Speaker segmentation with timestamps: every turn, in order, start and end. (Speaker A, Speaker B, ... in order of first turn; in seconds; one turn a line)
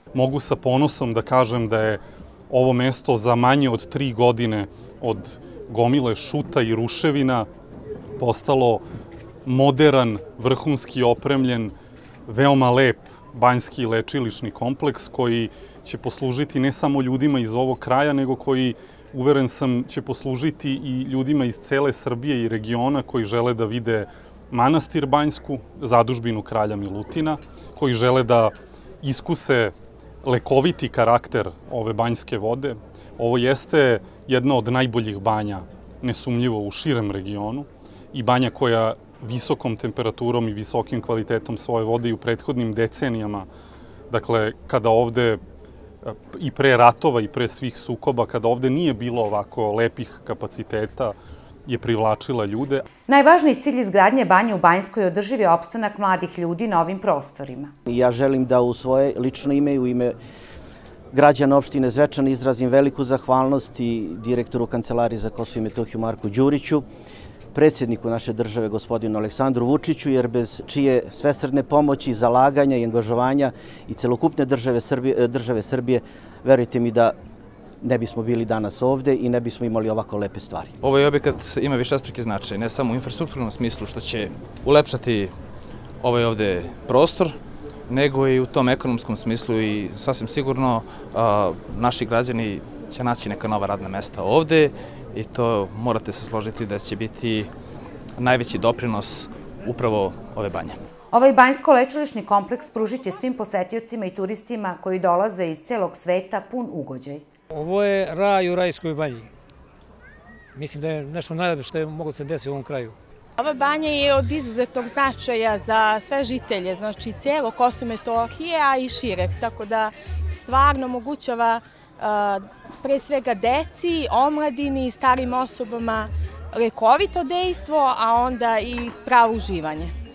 Speaker A: 0.1-7.5
Speaker A: 8.2-8.8
Speaker A: 9.4-11.8
Speaker A: 12.3-43.5
Speaker A: 44.1-45.4
Speaker A: 46.0-51.1
Speaker A: 51.7-52.9
Speaker B: 53.1-57.7
Speaker C: 57.9-60.1
Speaker C: 61.1-66.8
Speaker C: 67.5-77.2
Speaker C: 77.8-80.7
Speaker D: 80.8-85.3
Speaker D: 86.0-87.4
Speaker D: 87.9-97.5
Speaker D: 98.2-100.8
Speaker B: 101.1-107.2
Speaker E: 107.5-109.3
Speaker E: 110.5-113.0
Speaker F: 113.4-129.9